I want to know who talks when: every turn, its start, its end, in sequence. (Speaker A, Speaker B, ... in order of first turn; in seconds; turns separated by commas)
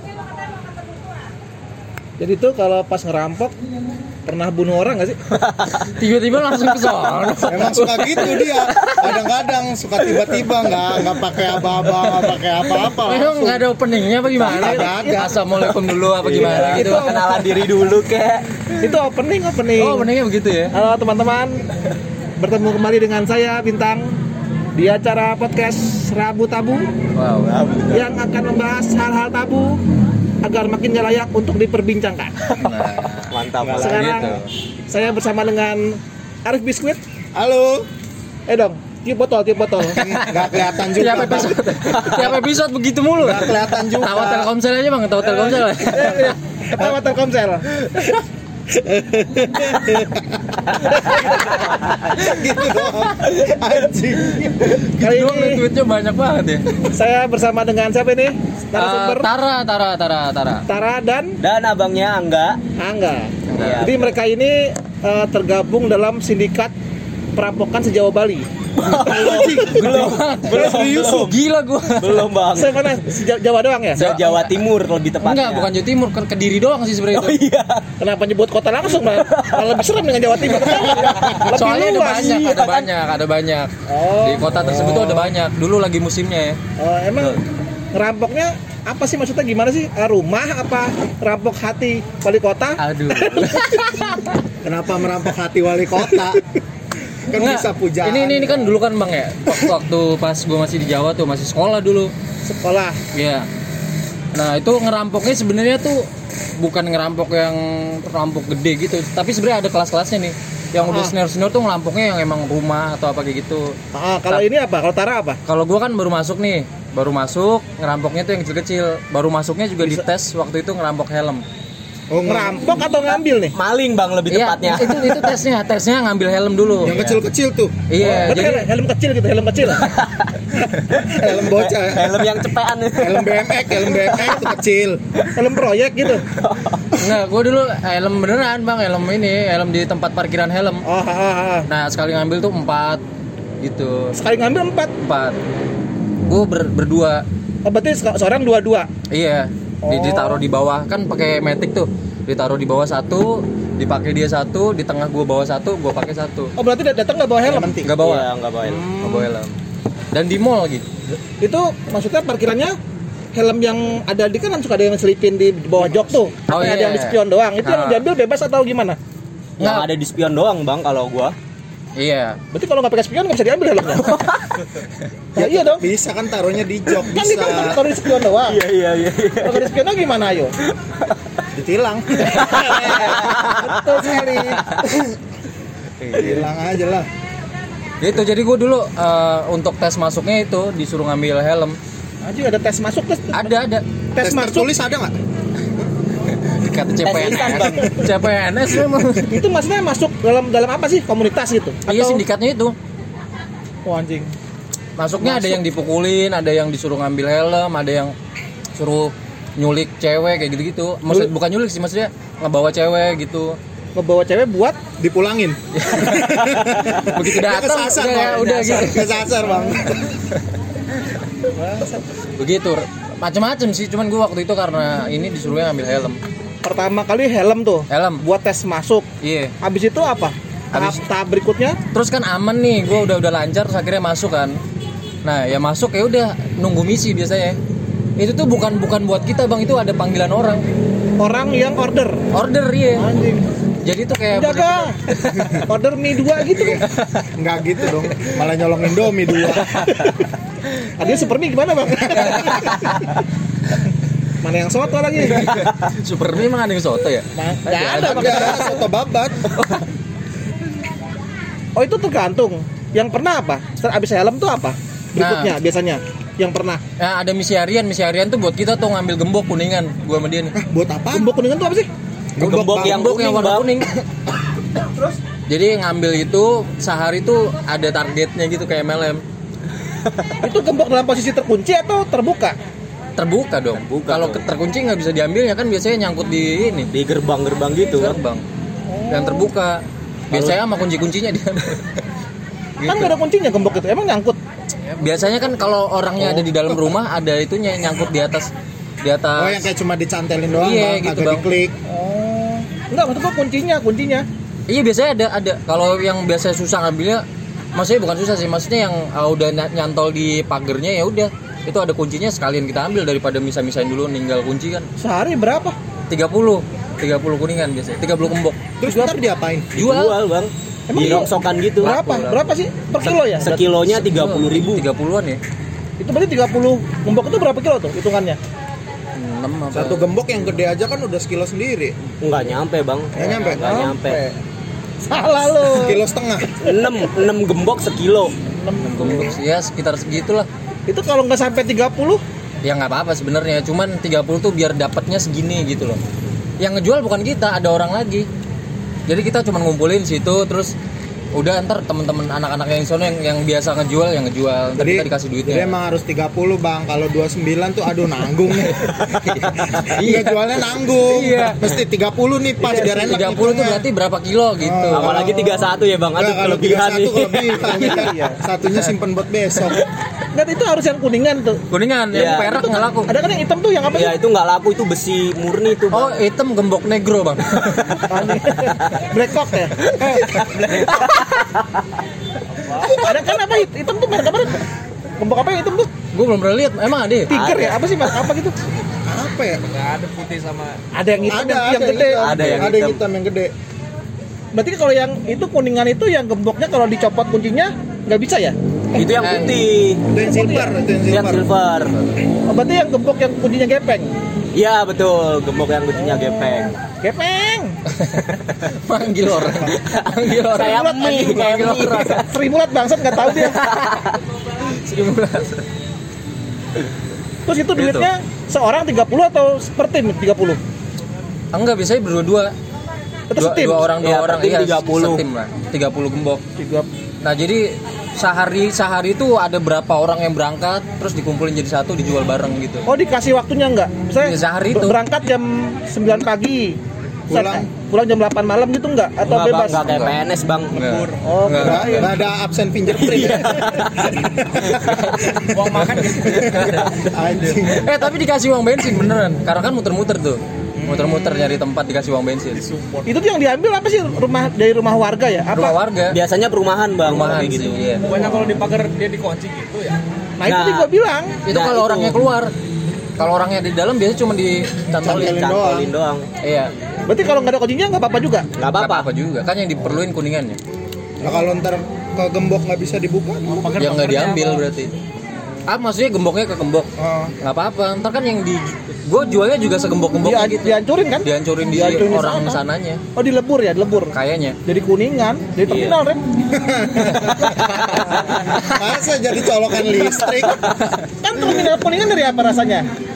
Speaker A: 2.2-3.5, Speaker A: 4.2-5.2, Speaker B: 5.4-5.8, Speaker C: 5.8-8.9, Speaker D: 7.4-13.7, Speaker B: 8.6-9.1, Speaker C: 13.0-17.2, Speaker D: 14.3-15.4, Speaker A: 14.4-15.3, Speaker B: 16.2-18.7, Speaker A: 16.4-17.5, Speaker A: 18.8-20.1, Speaker C: 19.8-20.7, Speaker A: 20.7-21.6, Speaker A: 22.4-24.1, Speaker A: 24.8-26.9, Speaker C: 27.1-27.5, Speaker B: 27.4-28.1, Speaker A: 27.9-29.8, Speaker A: 30.4-32.3, Speaker C: 32.6-34.5, Speaker B: 33.3-34.1, Speaker D: 33.6-34.4, Speaker A: 33.8-37.0, Speaker D: 37.3-37.9, Speaker A: 38.5-40.2, Speaker D: 39.9-41.7, Speaker C: 40.0-46.3, Speaker B: 41.9-42.3, Speaker D: 43.2-44.5, Speaker A: 45.8-47.7, Speaker D: 48.7-54.6, Speaker C: 54.6-56.7, Speaker A: 55.0-55.6, Speaker A: 56.9-59.3, Speaker C: 58.7-60.6, Speaker A: 60.7-61.4, Speaker B: 61.4-62.6, Speaker A: 62.8-66.7, Speaker C: 63.5-63.9, Speaker B: 63.5-64.2, Speaker A: 67.3-68.5, Speaker B: 68.8-71.4, Speaker C: 68.8-72.3, Speaker D: 69.1-69.7, Speaker B: 72.0-72.9, Speaker A: 72.5-74.1, Speaker C: 74.0-74.6, Speaker B: 74.0-75.7, Speaker C: 75.2-77.4, Speaker B: 77.1-77.8, Speaker A: 78.0-82.4, Speaker B: 79.0-79.8, Speaker B: 80.6-82.9, Speaker C: 80.7-86.6, Speaker A: 83.9-84.9, Speaker D: 84.6-85.2, Speaker A: 86.8-87.4, Speaker A: 87.9-94.2, Speaker C: 92.8-94.0, Speaker D: 94.6-96.4, Speaker D: 97.3-98.8, Speaker C: 97.3-102.1, Speaker A: 102.4-103.0, Speaker C: 103.1-103.5, Speaker C: 104.3-113.8, Speaker A: 110.8-111.2, Speaker A: 113.9-115.4, Speaker C: 115.4-121.4, Speaker D: 122.1-122.8, Speaker A: 122.2-123.5, Speaker B: 123.5-125.4, Speaker C: 124.3-127.0, Speaker D: 126.8-128.2, Speaker B: 126.8-127.2, Speaker C: 127.9-128.7, Speaker A: 128.0-129.9, Speaker B: 129.8-130.3, Speaker B: 130.9-134.3, Speaker D: 131.0-132.3, Speaker D: 133.0-135.0, Speaker A: 135.3-136.3, Speaker B: 136.2-136.9, Speaker C: 137.0-140.8, Speaker A: 140.8-141.7, Speaker C: 141.7-143.0, Speaker C: 143.6-144.3, Speaker A: 144.1-144.9, Speaker C: 145.0-145.4, Speaker C: 146.2-147.2, Speaker A: 147.6-148.9, Speaker C: 149.1-156.5, Speaker A: 149.8-150.4, Speaker A: 156.6-157.8, Speaker D: 157.4-157.9, Speaker C: 157.8-158.3, Speaker B: 157.9-158.9, Speaker A: 158.6-159.3, Speaker C: 159.0-159.5, Speaker C: 160.1-160.8, Speaker A: 161.4-162.8, Speaker A: 163.3-169.0, Speaker C: 166.5-168.0, Speaker B: 169.6-171.3, Speaker C: 169.6-169.9, Speaker C: 171.9-172.4, Speaker A: 172.5-174.3, Speaker B: 174.1-174.6, Speaker A: 175.3-175.9, Speaker D: 175.3-177.8, Speaker A: 177.0-178.6, Speaker B: 178.4-179.7, Speaker A: 179.4-180.5, Speaker D: 181.5-183.4, Speaker B: 182.4-183.7, Speaker A: 182.4-184.8, Speaker D: 184.1-185.1, Speaker C: 186.0-186.4, Speaker D: 186.1-187.1, Speaker C: 188.0-191.8, Speaker A: 192.2-193.5, Speaker C: 193.3-193.8, Speaker A: 194.1-194.7, Speaker D: 194.2-195.2, Speaker C: 196.2-199.4, Speaker B: 197.0-197.9, Speaker A: 197.2-197.8, Speaker A: 199.2-202.2, Speaker C: 201.9-202.7, Speaker A: 203.8-204.3, Speaker C: 205.0-208.1, Speaker A: 205.2-205.6, Speaker C: 208.7-213.6, Speaker A: 213.9-214.8, Speaker D: 215.0-220.1, Speaker C: 215.8-219.2, Speaker A: 221.6-222.0, Speaker C: 222.4-226.2, Speaker A: 226.6-229.1, Speaker C: 227.9-228.2, Speaker C: 229.2-229.5, Speaker A: 229.6-231.8, Speaker C: 230.7-231.0, Speaker C: 231.9-234.6, Speaker C: 235.2-237.6, Speaker C: 238.2-240.6, Speaker A: 241.2-242.2, Speaker C: 242.3-243.1, Speaker A: 243.0-243.4, Speaker C: 243.8-245.6, Speaker A: 244.3-245.0, Speaker A: 245.5-246.8, Speaker D: 246.5-249.8, Speaker C: 246.8-247.2, Speaker C: 249.4-249.9, Speaker A: 251.0-253.0, Speaker A: 254.4-255.5, Speaker C: 255.2-258.8, Speaker D: 257.4-259.4, Speaker A: 257.6-258.8, Speaker A: 261.8-266.8, Speaker C: 265.2-265.5, Speaker C: 267.0-270.5, Speaker D: 270.5-271.3, Speaker A: 271.1-271.9, Speaker D: 272.4-273.0, Speaker B: 272.4-273.8, Speaker C: 272.4-273.9, Speaker C: 275.5-279.2, Speaker A: 280.4-282.6, Speaker C: 283.1-286.9, Speaker B: 283.8-284.4, Speaker B: 286.9-288.2, Speaker C: 287.9-288.4, Speaker A: 288.9-289.5, Speaker C: 289.1-292.0, Speaker B: 290.3-290.6, Speaker C: 292.8-293.1, Speaker A: 292.8-294.4, Speaker C: 294.9-298.5, Speaker D: 296.2-296.8, Speaker C: 299.0-299.7, Speaker D: 299.4-301.7, Speaker C: 300.6-301.4, Speaker A: 301.9-304.2, Speaker C: 304.7-314.9, Speaker A: 315.0-315.7, Speaker C: 316.1-318.6, Speaker D: 318.8-319.7, Speaker A: 318.8-319.1, Speaker B: 319.7-322.0, Speaker C: 319.8-320.2, Speaker A: 320.9-323.7, Speaker C: 320.9-321.2, Speaker C: 321.8-322.4, Speaker B: 323.4-324.8, Speaker C: 323.8-325.4, Speaker A: 326.0-328.4, Speaker C: 329.1-330.1, Speaker D: 329.7-331.9, Speaker B: 332.2-334.2, Speaker D: 333.1-333.7, Speaker A: 333.4-334.3, Speaker A: 335.1-336.0, Speaker D: 335.7-336.6, Speaker B: 336.6-338.3, Speaker A: 338.6-339.4, Speaker C: 338.8-340.5, Speaker A: 340.9-342.2, Speaker C: 342.6-346.0, Speaker C: 346.6-348.3, Speaker C: 349.1-350.7, Speaker C: 351.3-355.7, Speaker D: 354.8-363.9, Speaker C: 358.9-361.6, Speaker A: 362.6-363.0, Speaker C: 362.9-365.3, Speaker D: 364.6-369.8, Speaker B: 364.9-367.9, Speaker A: 367.6-368.4, Speaker A: 370.3-371.6, Speaker C: 371.7-373.1, Speaker B: 372.1-372.6, Speaker A: 372.2-374.1, Speaker B: 373.9-376.2, Speaker C: 375.9-378.2, Speaker A: 378.1-380.3, Speaker B: 379.8-381.6, Speaker E: 382.6-382.9, Speaker A: 382.8-384.6, Speaker A: 385.2-385.9, Speaker C: 386.1-387.3, Speaker A: 387.3-388.5, Speaker B: 387.3-388.2, Speaker D: 389.1-389.6, Speaker E: 389.6-390.8, Speaker A: 390.9-392.3, Speaker D: 391.2-393.5, Speaker B: 392.2-393.0, Speaker A: 394.5-398.6, Speaker B: 398.9-400.0, Speaker C: 399.1-399.6, Speaker D: 400.1-401.4, Speaker A: 400.2-400.7, Speaker B: 401.1-401.9, Speaker A: 402.5-404.1, Speaker B: 404.5-406.8, Speaker A: 407.0-407.8, Speaker C: 407.9-412.2, Speaker D: 409.4-409.7, Speaker B: 409.8-412.2, Speaker A: 410.5-413.6, Speaker B: 413.4-414.2, Speaker C: 414.7-415.6, Speaker A: 417.4-420.6, Speaker C: 417.8-418.1, Speaker C: 421.5-422.5, Speaker A: 423.3-423.9, Speaker C: 423.4-426.4, Speaker B: 424.0-425.2, Speaker A: 426.6-426.9, Speaker C: 427.2-432.9, Speaker A: 432.9-436.8, Speaker C: 434.2-435.0, Speaker D: 437.3-437.7, Speaker A: 437.3-440.0, Speaker B: 439.2-440.8, Speaker C: 439.8-440.1, Speaker E: 440.7-441.3, Speaker C: 440.7-442.1, Speaker A: 441.2-442.1, Speaker D: 441.6-445.0, Speaker B: 442.9-444.1, Speaker C: 445.2-445.9, Speaker E: 445.4-447.7, Speaker D: 446.3-447.9, Speaker C: 447.7-452.7, Speaker D: 450.8-451.6, Speaker E: 452.6-453.2, Speaker A: 453.1-455.8, Speaker C: 455.5-456.2, Speaker B: 456.1-457.8, Speaker C: 457.0-458.1, Speaker E: 458.1-460.0, Speaker A: 460.4-461.4, Speaker B: 460.4-460.9, Speaker C: 461.5-462.5, Speaker B: 461.5-462.3, Speaker C: 463.2-465.3, Speaker D: 465.0-465.9, Speaker B: 465.1-466.2, Speaker C: 466.4-466.7, Speaker A: 467.1-468.4, Speaker B: 468.6-469.1, Speaker C: 468.8-470.6, Speaker D: 471.2-474.0, Speaker E: 473.5-474.6, Speaker C: 473.8-475.0, Speaker C: 475.7-483.0, Speaker D: 477.0-477.3, Speaker A: 480.2-482.6, Speaker A: 483.1-486.2, Speaker C: 484.1-484.6, Speaker B: 485.7-486.0, Speaker D: 486.5-487.6, Speaker C: 487.2-488.7, Speaker D: 488.6-490.6, Speaker A: 491.2-492.9